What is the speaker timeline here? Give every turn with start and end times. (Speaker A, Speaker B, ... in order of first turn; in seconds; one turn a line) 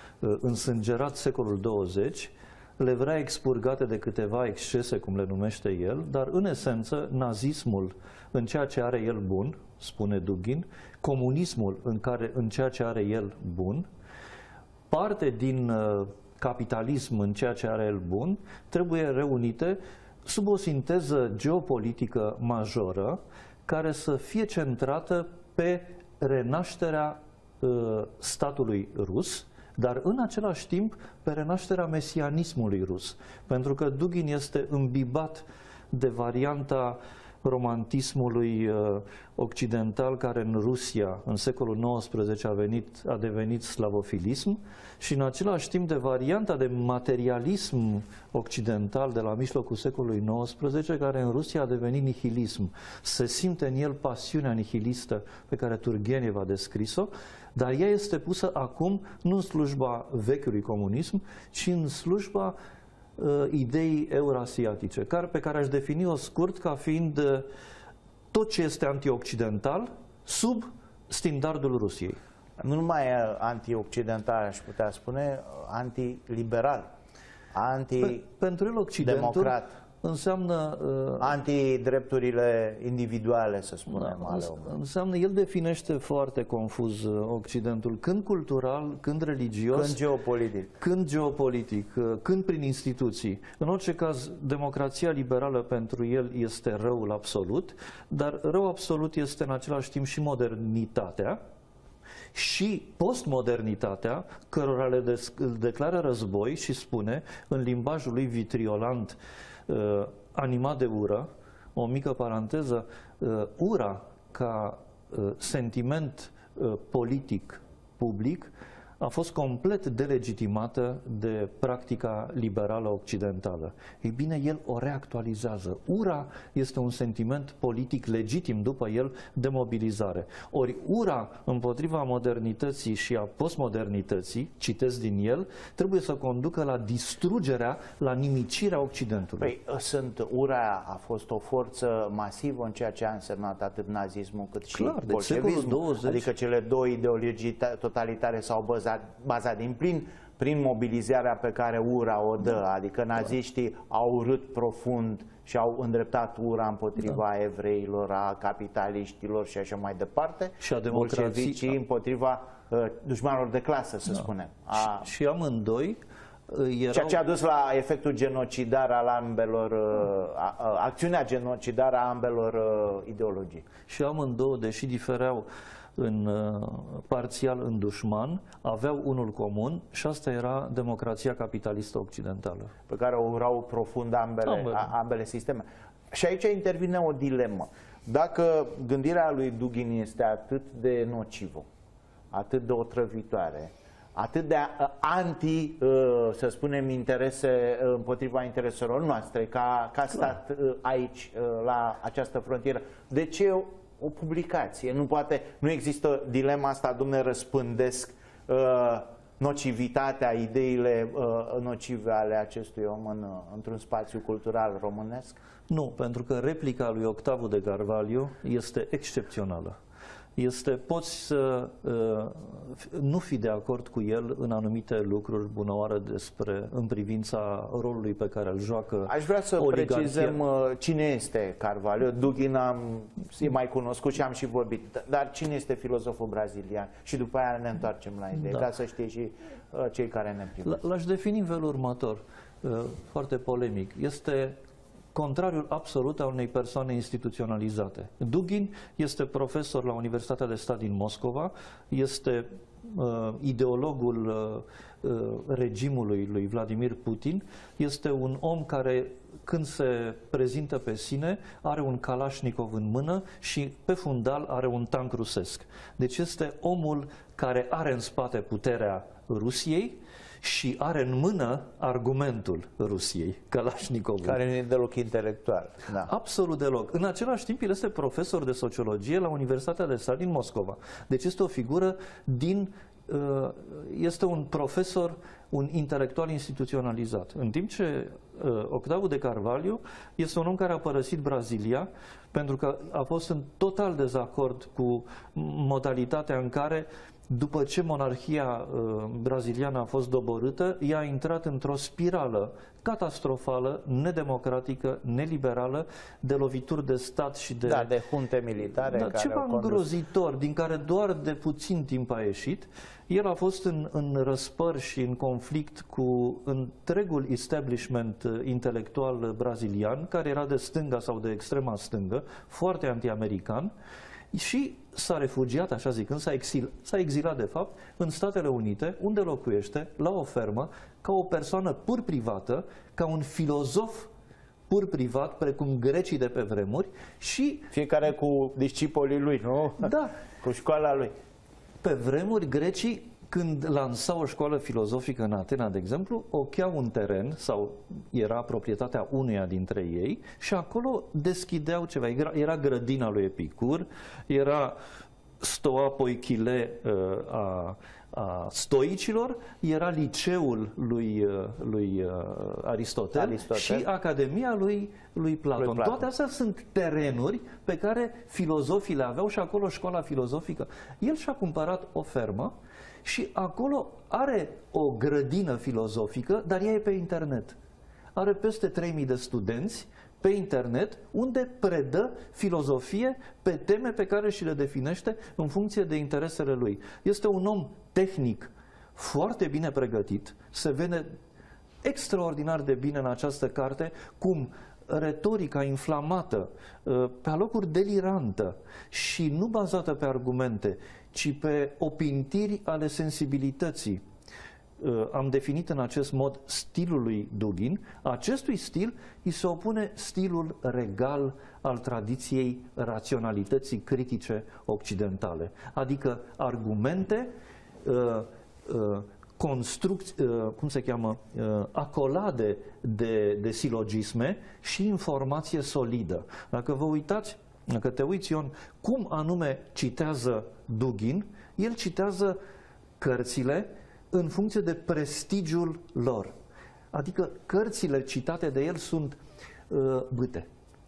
Speaker A: 0.2-13.8
Speaker A: 14.9-62.5
Speaker A: 63.2-67.5
Speaker A: 68.3-72.2
Speaker B: 72.6-76.9
Speaker B: 77.5-78.2
Speaker A: 78.0-81.4
Speaker B: 79.0-79.8
Speaker B: 81.2-84.7
Speaker A: 83.9-90.0
Speaker B: 89.7-90.7
Speaker A: 90.8-101.4
Speaker A: 102.3-139.5
Speaker B: 139.4-165.1
Speaker A: 144.7-146.3
Speaker A: 160.6-161.8
Speaker A: 164.8-167.2
Speaker B: 166.9-173.6
Speaker A: 173.9-182.7
Speaker B: 182.9-191.7
Speaker A: 184.4-184.9
Speaker B: 192.3-215.4
Speaker A: 215.7-219.8
Speaker A: 220.4-230.4
Speaker B: 229.1-240.8
Speaker A: 240.6-244.6
Speaker A: 245.1-274.4
Speaker B: 274.2-276.1
Speaker A: 276.0-307.9
Speaker B: 307.6-309.9
Speaker A: 308.9-323.7
Speaker A: 324.3-334.1
Speaker A: 334.7-337.7
Speaker B: 337.7-341.1
Speaker A: 339.8-340.1
Speaker A: 341.8-354.8
Speaker A: 355.4-372.5
Speaker B: 363.1-363.9
Speaker B: 365.6-366.0
Speaker A: 373.0-377.6
Speaker A: 378.1-391.1
Speaker A: 391.8-404.0
Speaker A: 404.8-417.3
Speaker A: 417.8-432.4
Speaker A: 433.0-436.3
Speaker A: 436.9-439.2
Speaker A: 439.7-440.5